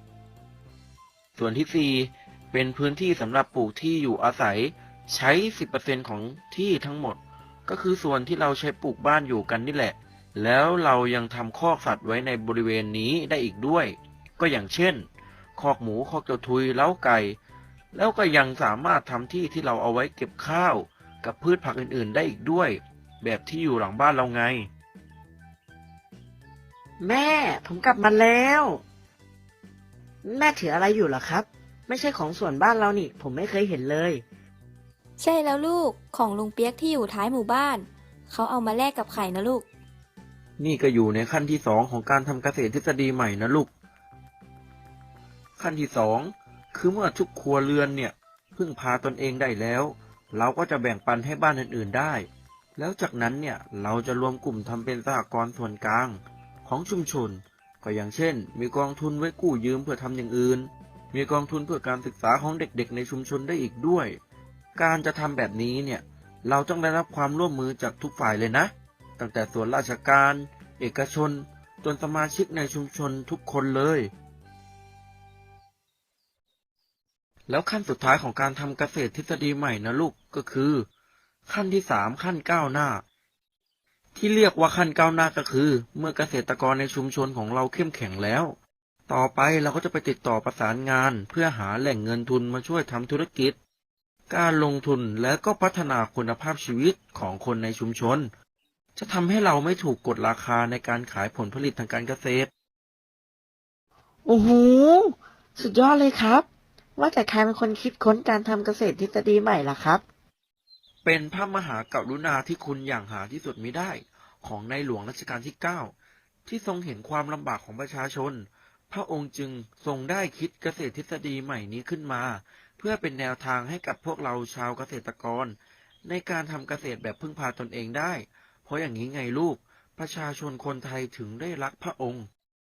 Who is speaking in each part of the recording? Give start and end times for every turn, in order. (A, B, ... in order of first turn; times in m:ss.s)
0:01.4-0:15.0 A
0:15.6-0:17.4 A
0:17.9-0:24.7 A
0:27.0-0:28.8 B
0:30.2-0:34.2 B
0:35.2-0:39.6 C
0:40.6-0:43.7 A
0:45.6-1:04.2 A
1:04.8-1:14.1 A
1:17.5-1:20.8 A
1:21.5-1:23.0 A
1:24.1-1:28.6 A
1:29.1-1:33.6 A
1:34.3-1:38.3 A
1:39.0-1:42.5 A
1:44.2-1:46.4 B
1:47.0-1:50.0 B
1:51.0-1:55.9 A
1:56.5-2:12.3 A